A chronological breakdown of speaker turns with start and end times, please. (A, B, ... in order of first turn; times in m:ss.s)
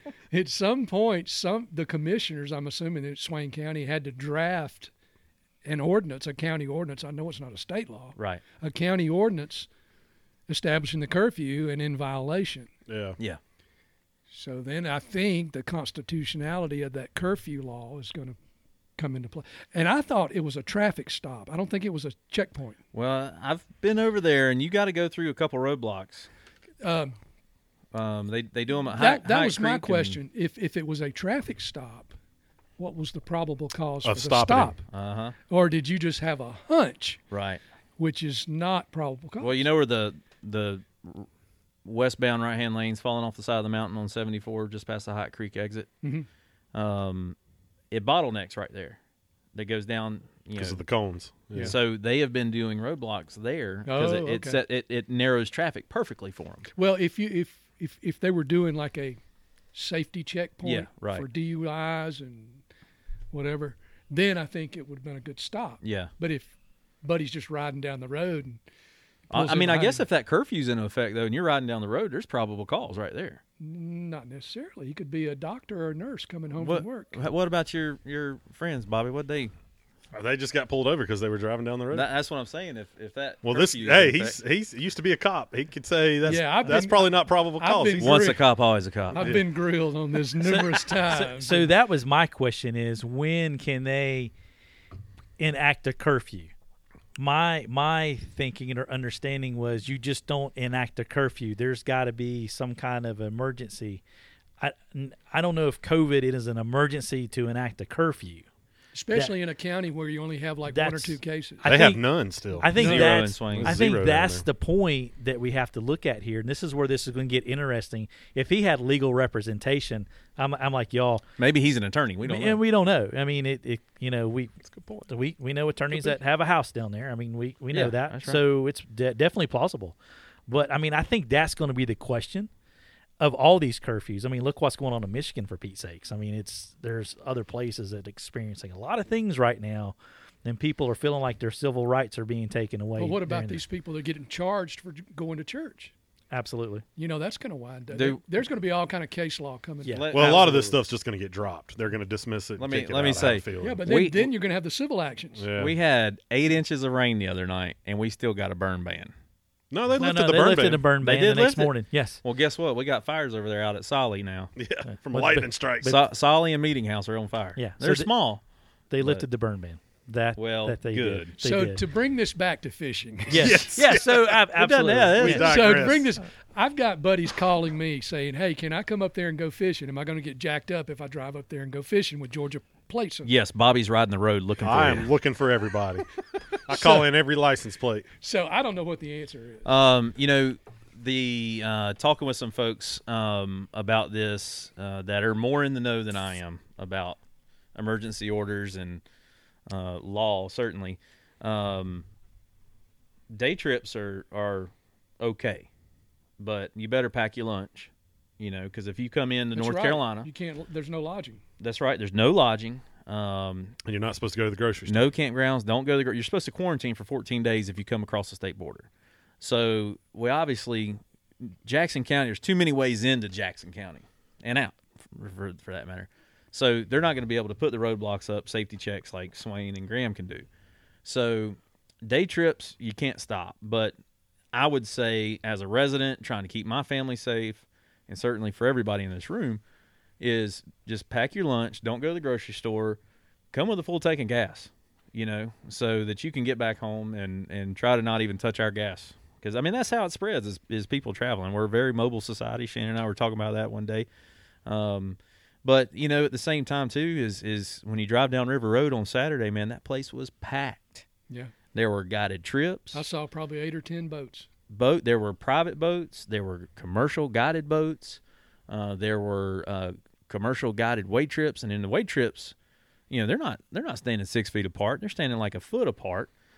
0:00.3-0:04.9 A
0:05.6-0:09.7 A
0:08.2-0:08.4 B
0:10.5-0:12.7 A
0:12.9-0:13.2 C
0:14.3-0:18.4 A
0:19.0-0:22.8 A
0:22.9-0:26.3 B
0:26.8-0:27.2 A
0:27.9-0:30.2 B
0:28.9-0:32.1 A
0:32.8-0:34.8 A
0:34.0-0:34.7 C
0:34.9-0:35.3 B
0:35.5-0:37.2 A
0:37.3-0:37.6 B
0:38.0-0:39.6 A
0:39.4-0:41.3 B
0:41.8-0:45.9 B
0:46.7-0:47.4 B
0:47.9-0:49.0 B
0:49.5-0:50.8 B
0:50.6-0:51.7 C
0:51.6-0:56.7 B
0:53.8-0:54.6 A
0:56.8-0:59.2 A
0:59.7-1:02.6 A
1:00.6-1:01.3 B
1:03.3-1:08.6 A
1:05.8-1:06.1 B
1:09.3-1:10.0 A
1:09.3-1:13.4 B
1:13.6-1:17.2 A
1:16.6-1:19.5 B
1:20.1-1:22.1 C
1:21.9-1:24.4 B
1:23.4-1:28.4 C
1:26.2-1:28.5 A
1:28.0-1:29.4 B
1:29.1-1:31.7 A
1:29.1-1:29.4 C
1:31.1-1:34.3 D
1:35.4-1:36.5 D
1:37.2-1:44.0 D
1:44.6-1:48.4 D
1:48.9-1:51.6 A
1:50.7-1:52.0 D
1:51.6-1:54.4 C
1:52.5-2:01.2 D
1:52.7-1:53.9 B
1:52.8-1:53.1 A
2:01.4-2:02.6 B
2:02.2-2:04.5 D
2:04.6-2:05.1 C
2:05.1-2:10.0 D
2:07.7-2:08.4 B
2:10.5-2:12.5 D
2:13.2-2:23.6 D
2:23.0-2:25.9 A
2:26.3-2:26.8 D
2:27.0-2:30.0 A
2:27.9-2:28.2 B
2:29.8-2:30.5 D
2:29.9-2:30.8 B
2:30.1-2:33.8 C
2:32.6-2:34.3 B
2:33.6-2:35.5 A
2:35.3-2:35.7 C
2:35.6-2:39.1 B
2:39.7-2:40.8 C
2:40.0-2:42.2 D
2:41.0-2:44.5 B
2:44.6-2:46.0 C
2:44.8-2:46.0 D
2:45.8-2:48.4 B
2:47.6-2:48.1 D
2:48.9-2:51.8 D
2:50.4-2:51.3 B
2:51.4-2:53.6 A
2:53.3-2:55.5 D
2:53.3-2:54.4 C
2:54.6-2:55.7 B
2:55.2-2:56.2 C
2:55.3-3:03.3 A
3:03.2-3:05.1 B
3:04.6-3:06.0 C
3:06.6-3:08.1 C
3:06.7-3:07.1 A
3:08.2-3:09.6 A
3:09.6-3:17.2 B
3:17.7-3:19.0 B
3:19.7-3:22.0 B
3:23.3-3:25.7 B
3:26.4-3:30.3 B
3:29.5-3:31.4 A
3:31.6-3:33.8 B
3:33.8-3:35.1 C
3:34.9-3:38.9 B
3:39.4-3:50.4 B
3:51.0-3:53.9 B
3:54.5-3:59.6 B
4:00.2-4:03.0 B
4:03.5-4:14.0 B
4:14.6-4:21.0 B
4:21.7-4:23.0 B
4:22.9-4:24.5 A
4:24.7-4:32.5 B
4:33.1-4:36.3 B